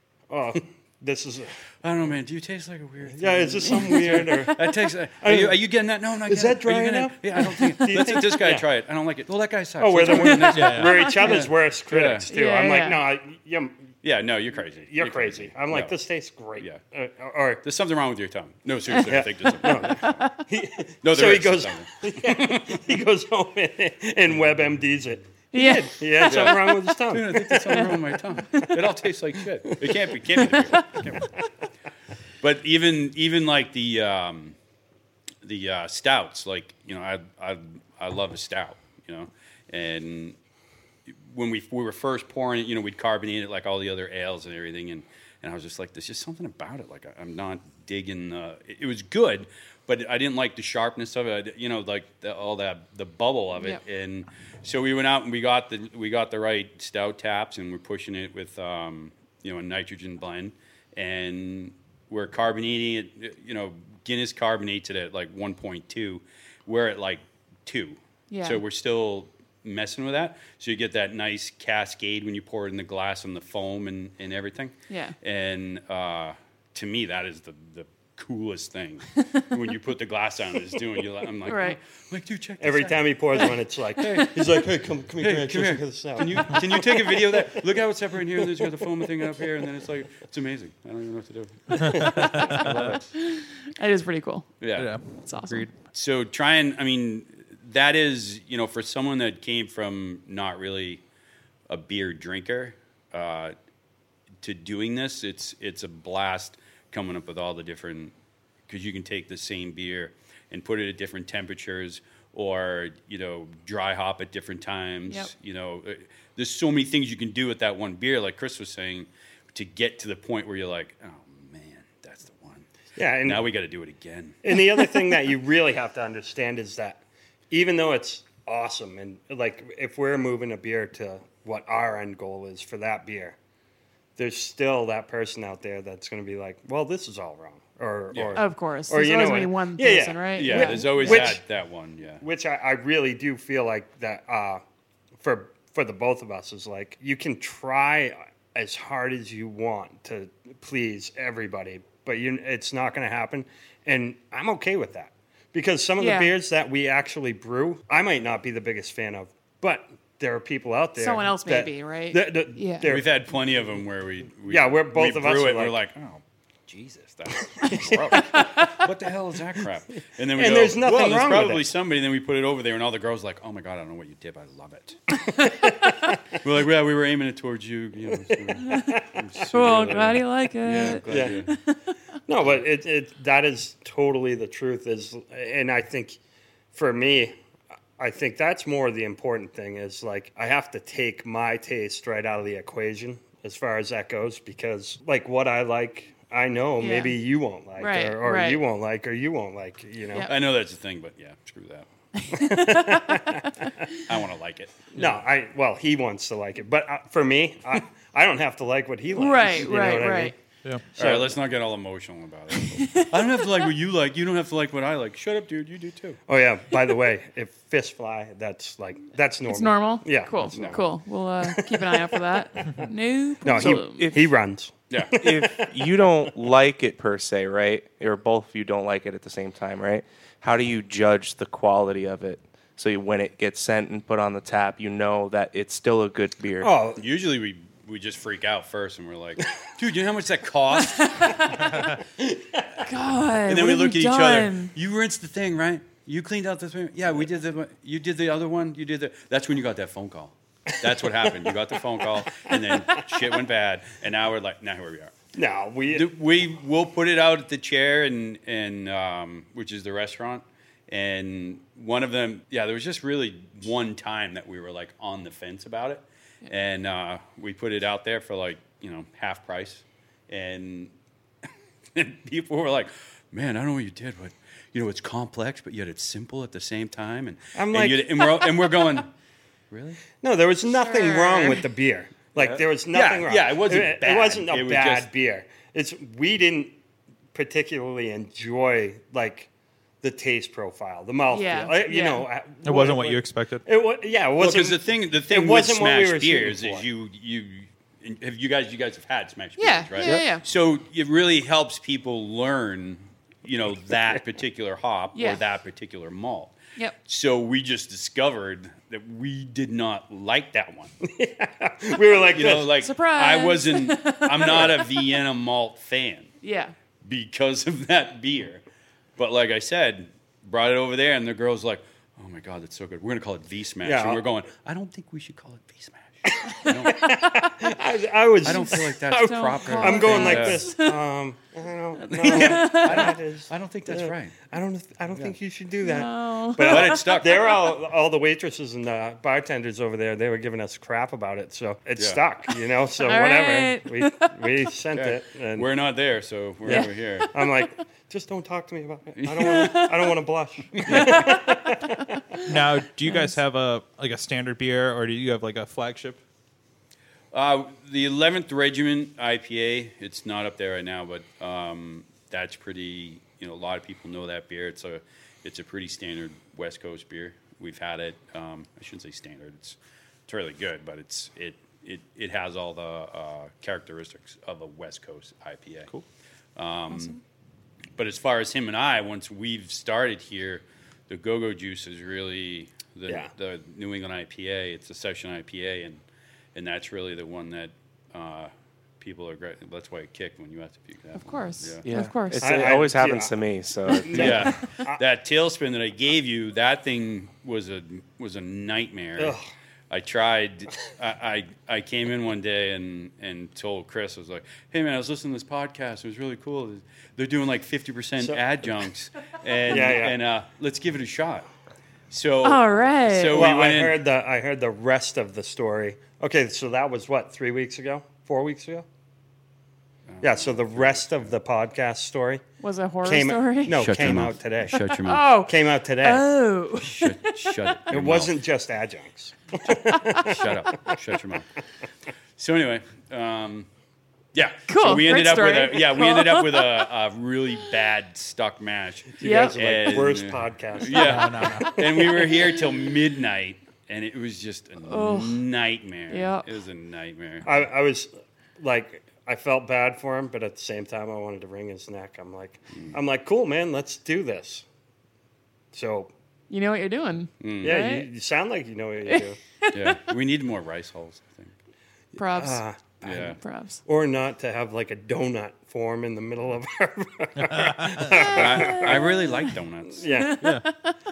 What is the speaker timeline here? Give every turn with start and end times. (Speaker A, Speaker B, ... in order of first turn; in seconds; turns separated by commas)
Speaker A: 0.3-1.6, Speaker B: 1.8-12.3, Speaker A: 3.2-5.7, Speaker C: 3.7-4.6, Speaker A: 6.2-8.7, Speaker A: 9.8-13.8, Speaker C: 10.1-11.4, Speaker D: 10.5-11.0, Speaker C: 12.3-13.0, Speaker B: 14.0-16.0, Speaker A: 14.8-17.6, Speaker B: 17.6-20.3, Speaker A: 19.1-28.9, Speaker C: 19.6-20.3, Speaker B: 21.0-22.7, Speaker C: 25.5-26.7, Speaker B: 26.2-31.2, Speaker A: 29.7-31.3, Speaker C: 30.7-31.0, Speaker B: 32.4-34.5, Speaker B: 35.4-40.4, Speaker B: 41.1-84.6, Speaker C: 68.3-68.6, Speaker C: 74.9-75.2, Speaker C: 81.4-81.8, Speaker A: 82.6-87.6, Speaker C: 84.0-84.4, Speaker B: 85.2-93.0, Speaker A: 88.4-88.9, Speaker D: 91.8-92.7, Speaker A: 92.0-93.0, Speaker C: 92.1-92.5, Speaker C: 93.1-94.5, Speaker B: 94.6-95.0, Speaker D: 94.8-95.8, Speaker C: 95.2-95.7, Speaker B: 95.9-101.0, Speaker B: 101.7-103.5, Speaker B: 104.4-108.1, Speaker B: 108.7-122.7, Speaker A: 123.0-123.5, Speaker B: 123.2-124.4, Speaker A: 124.4-133.3, Speaker A: 134.2-141.4, Speaker B: 138.1-138.4, Speaker C: 138.3-141.4, Speaker B: 140.3-142.2, Speaker A: 142.2-144.6, Speaker A: 145.2-163.2, Speaker C: 156.0-156.3, Speaker C: 160.9-162.9, Speaker B: 162.8-175.0, Speaker A: 164.5-165.8, Speaker A: 167.6-168.4, Speaker C: 168.3-168.7, Speaker A: 170.3-171.7, Speaker A: 175.3-176.1, Speaker B: 176.4-181.5, Speaker A: 178.3-179.1, Speaker C: 179.5-181.9, Speaker A: 181.0-181.4, Speaker A: 182.3-186.2, Speaker A: 186.7-187.3, Speaker A: 188.0-200.3, Speaker C: 196.8-197.2, Speaker C: 197.8-198.6, Speaker B: 200.2-201.9, Speaker C: 202.2-203.4, Speaker A: 202.3-203.7, Speaker B: 204.1-205.1, Speaker A: 204.9-210.3, Speaker C: 209.1-210.3, Speaker B: 210.9-216.2, Speaker A: 210.9-211.4, Speaker C: 212.6-213.2, Speaker A: 216.3-220.8, Speaker C: 219.5-224.1, Speaker B: 220.5-220.8, Speaker A: 221.4-222.2, Speaker A: 223.4-226.2, Speaker E: 223.5-224.3, Speaker B: 224.9-225.4, Speaker E: 225.2-236.7, Speaker A: 236.6-237.0, Speaker B: 237.0-241.5, Speaker C: 240.8-241.8, Speaker A: 242.2-242.8, Speaker C: 242.8-244.7, Speaker B: 243.4-255.1, Speaker A: 252.4-253.1, Speaker A: 255.3-256.1, Speaker B: 255.9-270.9, Speaker B: 271.9-279.1, Speaker A: 277.5-278.2, Speaker B: 279.7-280.0, Speaker A: 280.1-286.7, Speaker C: 280.7-281.7, Speaker B: 282.4-285.1, Speaker A: 287.3-289.5, Speaker A: 290.0-296.9, Speaker C: 291.3-292.2, Speaker D: 292.6-293.6, Speaker B: 294.4-310.9, Speaker C: 299.6-300.4, Speaker C: 305.1-305.4, Speaker A: 311.0-312.7, Speaker B: 312.3-316.3, Speaker C: 312.8-314.9, Speaker C: 316.4-316.7, Speaker B: 317.0-318.6, Speaker B: 319.2-327.1, Speaker A: 323.8-324.2, Speaker A: 326.4-345.7, Speaker B: 328.4-330.8, Speaker C: 328.4-331.0, Speaker B: 332.1-334.4, Speaker C: 332.1-333.1, Speaker C: 335.8-337.2, Speaker B: 336.6-337.7, Speaker B: 342.0-342.2, Speaker C: 343.0-344.5, Speaker B: 344.9-347.3, Speaker A: 346.6-352.2, Speaker C: 346.7-347.7, Speaker B: 349.2-349.9, Speaker C: 349.4-349.9, Speaker B: 350.7-351.3, Speaker C: 350.9-351.3, Speaker D: 352.4-356.2, Speaker C: 353.1-353.4, Speaker B: 357.3-376.0, Speaker B: 376.6-377.2, Speaker C: 376.9-377.2, Speaker B: 378.0-386.0, Speaker B: 386.5-391.9, Speaker C: 391.1-392.6, Speaker E: 391.8-394.6, Speaker A: 392.4-393.4, Speaker A: 393.9-395.0, Speaker B: 394.0-399.4, Speaker A: 399.2-399.4, Speaker B: 399.9-411.5, Speaker A: 409.6-410.2, Speaker B: 412.1-414.0, Speaker C: 412.4-413.4, Speaker A: 413.3-418.9, Speaker B: 420.1-421.3, Speaker A: 420.2-422.4, Speaker C: 422.6-427.7, Speaker A: 423.0-426.3, Speaker B: 423.7-425.4, Speaker B: 426.8-428.3, Speaker A: 427.9-431.0, Speaker B: 430.1-431.4, Speaker B: 432.4-433.7, Speaker B: 434.3-447.5, Speaker C: 434.7-436.9, Speaker A: 439.2-442.4, Speaker C: 439.2-439.6, Speaker D: 440.9-441.8, Speaker C: 444.8-445.5, Speaker C: 446.1-446.5, Speaker A: 447.4-454.6, Speaker A: 455.7-456.1, Speaker C: 456.5-458.1, Speaker B: 457.4-457.8, Speaker A: 457.6-459.4, Speaker C: 459.1-460.0, Speaker B: 459.7-461.6, Speaker C: 462.1-462.6, Speaker A: 462.2-463.3, Speaker B: 463.0-463.4, Speaker C: 463.2-463.8, Speaker A: 463.8-470.6, Speaker D: 467.5-467.9, Speaker B: 468.1-470.1, Speaker C: 470.1-471.0, Speaker D: 470.4-470.6